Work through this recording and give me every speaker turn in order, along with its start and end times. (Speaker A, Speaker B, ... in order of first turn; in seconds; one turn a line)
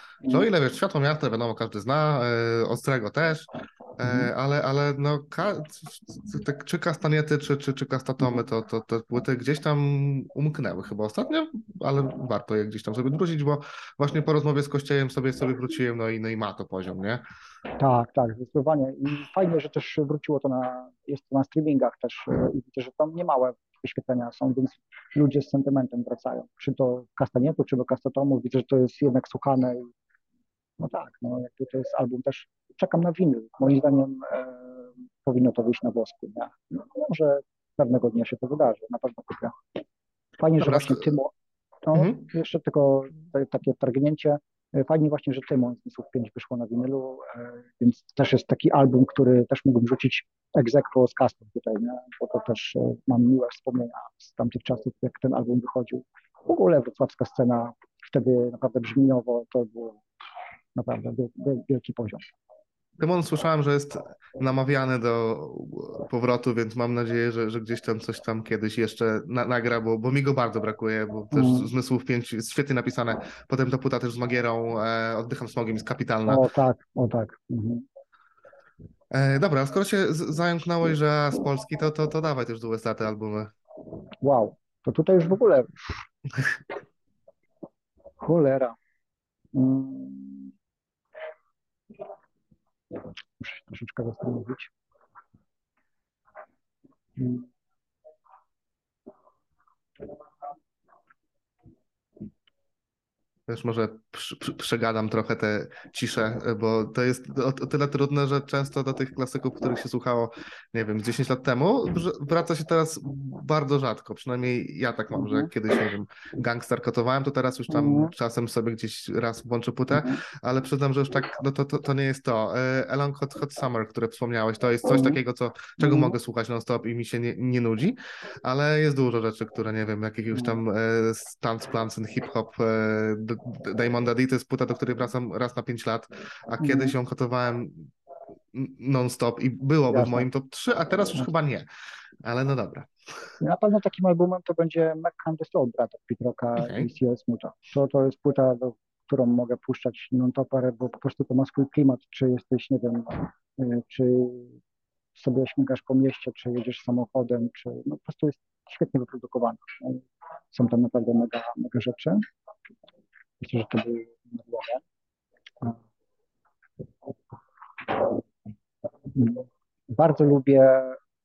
Speaker A: 0.3-17.2
Speaker B: 17.8-29.9
Speaker B: 30.8-39.8
Speaker B: 40.4-41.3
Speaker A: 40.6-41.0
Speaker B: 41.8-60.0
Speaker B: 60.8-62.3
Speaker A: 63.0-76.5
Speaker B: 71.3-71.7
Speaker B: 76.3-77.9
Speaker A: 79.1-83.5
Speaker B: 84.2-86.0
Speaker B: 88.2-88.8
Speaker B: 89.5-90.5
Speaker B: 92.9-94.7
Speaker B: 97.2-97.5
Speaker A: 103.5-137.9
Speaker B: 115.2-115.5
Speaker B: 117.7-118.1
Speaker B: 120.0-120.2
Speaker B: 124.9-125.2
Speaker B: 125.8-126.1
Speaker B: 136.6-136.9
Speaker A: 138.5-141.7
Speaker B: 139.9-140.3
Speaker A: 142.2-142.9
Speaker B: 143.4-154.6
Speaker A: 146.6-146.9
Speaker B: 155.2-162.2
Speaker B: 163.4-164.8
Speaker B: 167.3-168.2
Speaker B: 169.0-171.0